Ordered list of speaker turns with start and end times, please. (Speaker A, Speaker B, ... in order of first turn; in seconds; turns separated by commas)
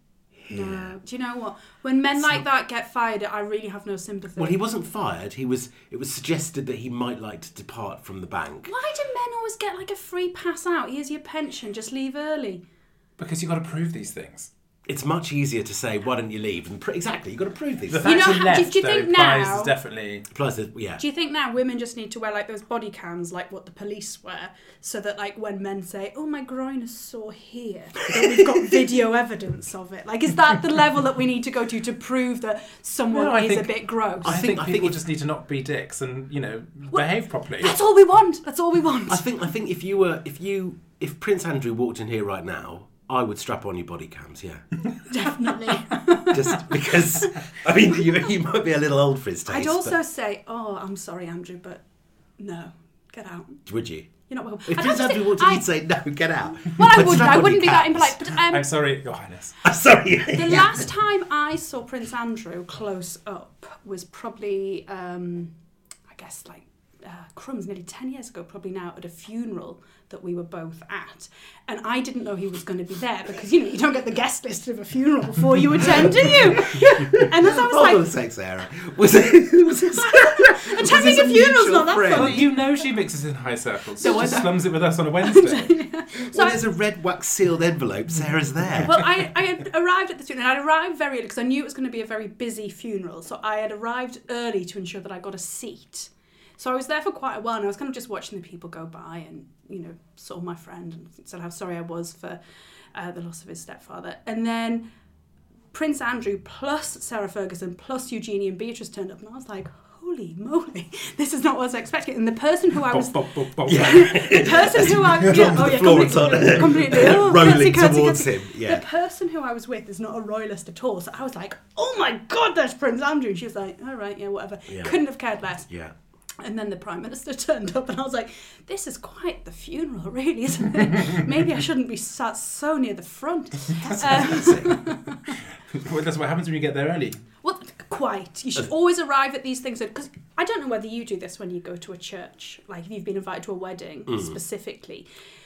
Speaker A: 0.4-0.9, Speaker B: 0.5-4.6, Speaker A: 4.4-8.7, Speaker B: 8.7-12.6, Speaker C: 13.2-14.5, Speaker A: 14.9-18.1, Speaker C: 17.9-20.3, Speaker B: 18.0-19.7, Speaker A: 20.3-21.0, Speaker B: 21.0-34.4, Speaker A: 28.1-28.8, Speaker C: 33.1-37.8, Speaker A: 34.2-35.0, Speaker B: 37.6-39.2, Speaker A: 39.1-44.6, Speaker B: 45.1-47.3, Speaker A: 46.3-50.0, Speaker B: 49.5-51.8, Speaker B: 52.4-53.6, Speaker A: 53.7-54.1, Speaker B: 54.3-55.7, Speaker A: 54.7-58.3, Speaker B: 56.6-58.7, Speaker C: 58.5-59.6, Speaker A: 59.6-60.9, Speaker B: 60.3-65.5, Speaker B: 66.1-78.1, Speaker A: 75.8-82.5, Speaker B: 79.7-82.5, Speaker C: 82.1-85.8, Speaker A: 84.0-84.5, Speaker B: 84.0-84.4, Speaker B: 85.2-86.6, Speaker A: 86.2-89.0, Speaker B: 88.8-102.4, Speaker B: 102.9-104.8, Speaker B: 105.7-125.7, Speaker C: 112.8-114.1, Speaker A: 113.7-118.9, Speaker A: 124.7-124.9, Speaker A: 125.7-125.9, Speaker B: 126.4-135.4, Speaker A: 133.9-134.8, Speaker C: 135.7-137.2, Speaker B: 137.4-145.1, Speaker A: 144.1-144.4